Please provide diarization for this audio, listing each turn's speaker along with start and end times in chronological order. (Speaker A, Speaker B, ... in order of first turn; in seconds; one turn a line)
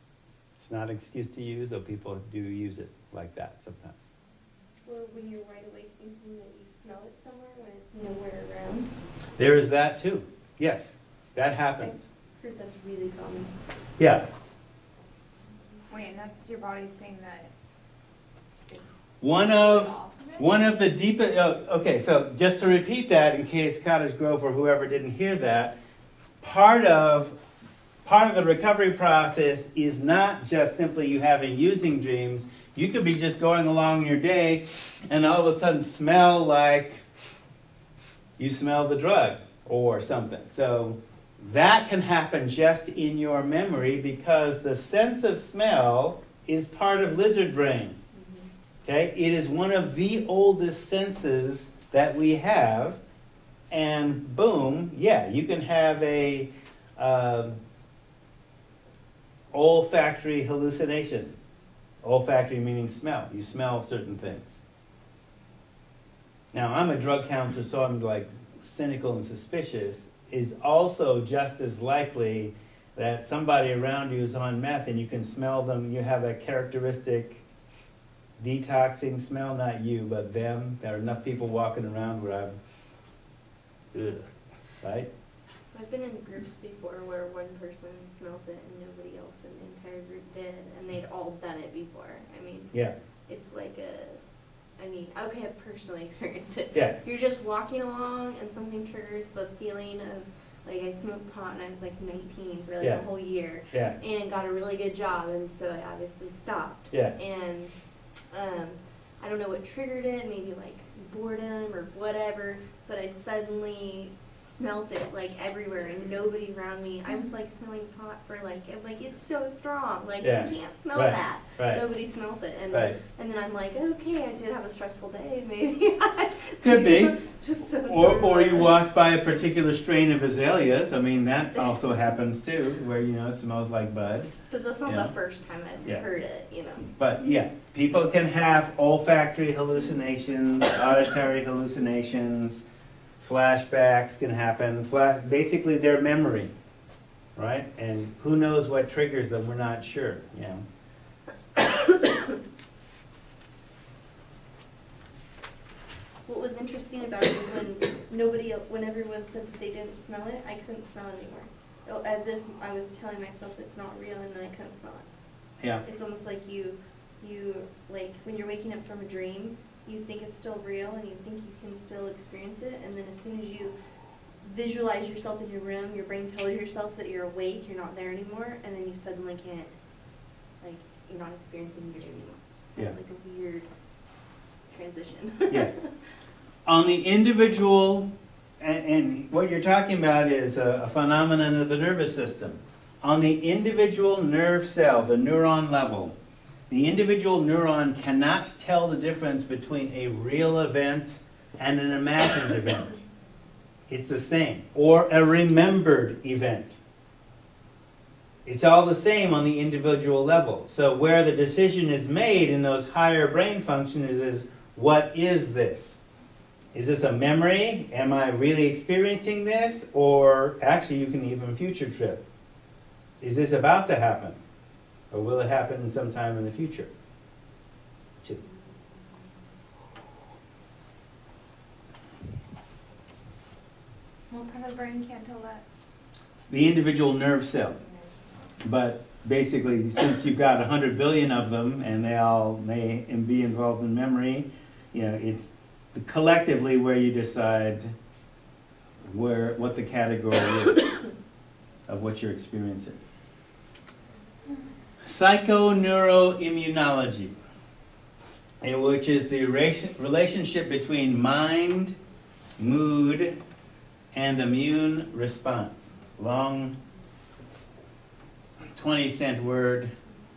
Speaker A: 0.6-4.0
Speaker B: 4.9-8.9
Speaker A: 9.4-12.1
Speaker B: 11.8-13.5
Speaker A: 14.0-14.2
Speaker C: 15.9-17.5
Speaker C: 18.7-20.5
Speaker A: 19.2-25.8
Speaker A: 26.4-27.4
Speaker A: 28.1-37.0
Speaker A: 38.4-48.0
Speaker B: 48.1-48.5
Speaker A: 48.9-53.0
Speaker A: 53.7-57.6
Speaker A: 59.5-61.4
Speaker A: 62.0-64.6
Speaker A: 66.5-77.4
Speaker A: 78.4-82.6
Speaker A: 83.9-84.3
Speaker A: 84.8-85.1
Speaker B: 85.7-92.7
Speaker B: 93.3-94.2
Speaker B: 94.8-107.7
Speaker B: 108.3-128.8
Speaker A: 120.2-121.8
Speaker A: 122.7-123.0
Speaker A: 126.6-127.1
Speaker A: 127.9-134.3
Speaker B: 134.5-136.9
Speaker A: 134.9-135.1
Speaker A: 137.0-142.6
Speaker A: 143.2-146.5
Speaker A: 147.4-150.6
Speaker B: 156.3-165.1
Speaker B: 165.8-173.7
Speaker B: 174.4-179.7
Speaker B: 180.6-183.7
Speaker B: 184.7-185.9
Speaker A: 185.5-185.8
Speaker A: 186.7-188.1
Speaker A: 188.6-196.1
Speaker A: 196.7-203.0
Speaker A: 203.9-206.8
Speaker A: 208.5-216.0
Speaker A: 216.7-222.2
Speaker A: 223.2-224.4
Speaker A: 225.1-226.9
Speaker C: 234.3-235.6
Speaker A: 236.5-237.8
Speaker C: 237.8-238.2
Speaker A: 238.6-247.9
Speaker A: 249.1-251.0
Speaker A: 251.9-253.0
Speaker A: 255.0-257.4
Speaker A: 258.6-262.0
Speaker A: 262.6-263.4
Speaker A: 264.1-266.8
Speaker A: 268.8-269.9